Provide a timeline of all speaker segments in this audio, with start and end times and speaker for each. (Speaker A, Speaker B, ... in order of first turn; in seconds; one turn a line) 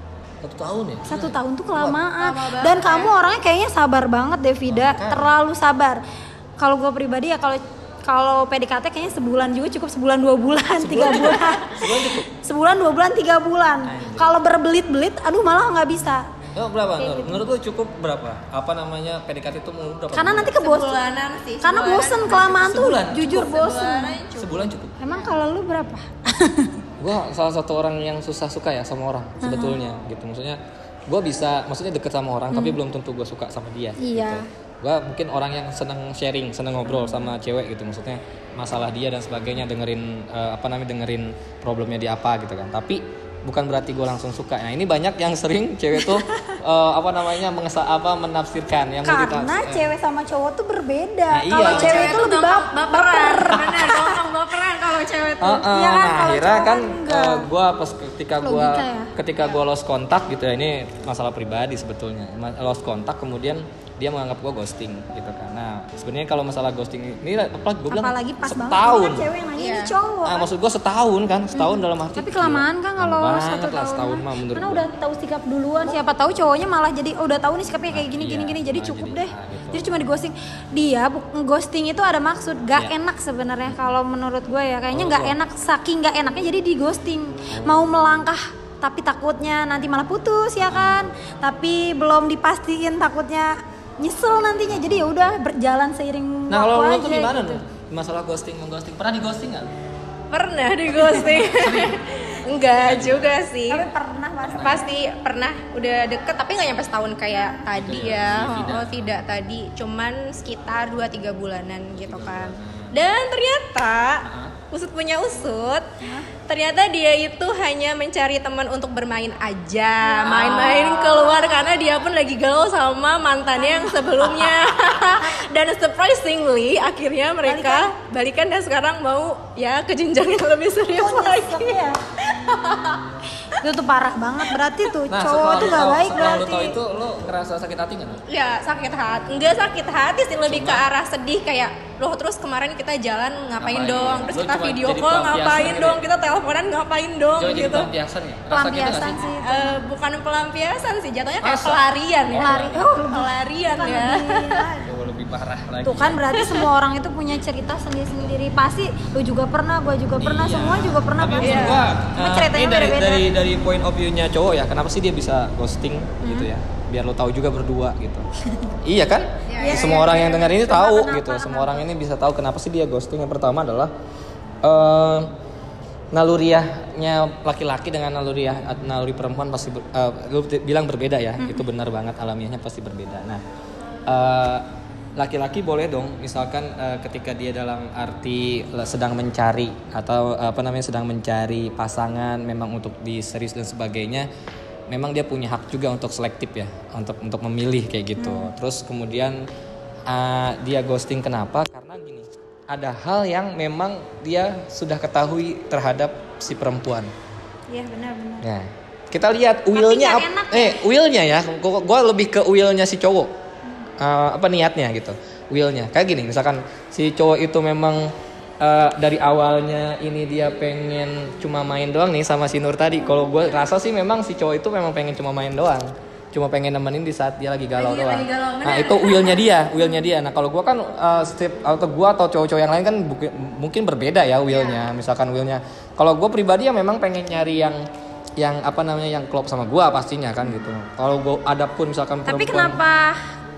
Speaker A: 0.4-2.0
Speaker B: 1.1-6.0
Speaker C: 2.2-3.1
Speaker A: 4.7-5.3
Speaker B: 6.6-16.3
Speaker A: 10.8-12.3
Speaker A: 13.9-14.4
Speaker A: 16.6-20.6
Speaker B: 17.0-17.4
Speaker B: 20.1-21.0
Speaker C: 20.6-25.3
Speaker B: 21.6-24.1
Speaker A: 22.4-23.4
Speaker A: 24.4-25.0
Speaker B: 25.0-26.8
Speaker A: 27.0-49.9
Speaker B: 29.4-29.9
Speaker B: 32.5-32.8
Speaker B: 34.0-34.5
Speaker B: 36.9-37.3
Speaker B: 46.0-46.6
Speaker B: 49.0-54.2
Speaker A: 51.3-52.3
Speaker C: 51.6-55.7
Speaker A: 55.4-69.3
Speaker B: 55.6-57.5
Speaker B: 58.4-59.1
Speaker B: 67.9-70.5
Speaker C: 69.6-70.0
Speaker A: 70.2-74.9
Speaker B: 71.5-97.6
Speaker A: 77.9-79.9
Speaker A: 84.9-85.4
Speaker A: 87.5-87.9
Speaker A: 90.6-91.1
Speaker A: 94.7-95.3
Speaker A: 96.5-99.7
Speaker C: 100.3-103.9
Speaker A: 100.9-102.0
Speaker A: 102.7-103.5
Speaker B: 103.7-104.8
Speaker A: 104.4-104.8
Speaker C: 104.6-115.9
Speaker B: 107.3-107.6
Speaker A: 107.7-109.1
Speaker A: 112.0-113.0
Speaker A: 114.2-114.6
Speaker B: 116.0-116.3
Speaker C: 116.5-133.1
Speaker B: 120.0-121.7
Speaker A: 120.3-120.8
Speaker B: 123.6-124.0
Speaker B: 127.5-127.9
Speaker B: 131.0-132.3
Speaker B: 133.6-136.8
Speaker A: 135.1-138.2
Speaker C: 138.3-147.9
Speaker A: 140.5-140.9
Speaker A: 143.6-146.0
Speaker A: 147.4-149.3
Speaker B: 148.5-149.8
Speaker C: 149.4-154.7
Speaker A: 151.4-153.0
Speaker B: 152.4-154.9
Speaker A: 154.8-156.2
Speaker B: 155.8-163.3
Speaker C: 156.4-156.7
Speaker A: 160.2-168.3
Speaker C: 161.4-161.8
Speaker B: 166.2-166.5
Speaker A: 168.8-173.9
Speaker C: 169.4-170.2
Speaker B: 169.6-171.8
Speaker A: 174.6-175.3
Speaker A: 176.1-183.4
Speaker B: 181.4-181.7
Speaker A: 184.1-194.3
Speaker A: 194.9-199.4
Speaker B: 198.2-198.5
Speaker A: 200.1-207.1
Speaker B: 207.7-208.5
Speaker A: 208.4-213.3
Speaker B: 209.7-210.8
Speaker A: 214.0-237.8
Speaker C: 227.8-229.4
Speaker C: 234.5-234.9
Speaker A: 238.4-242.8
Speaker B: 242.3-243.2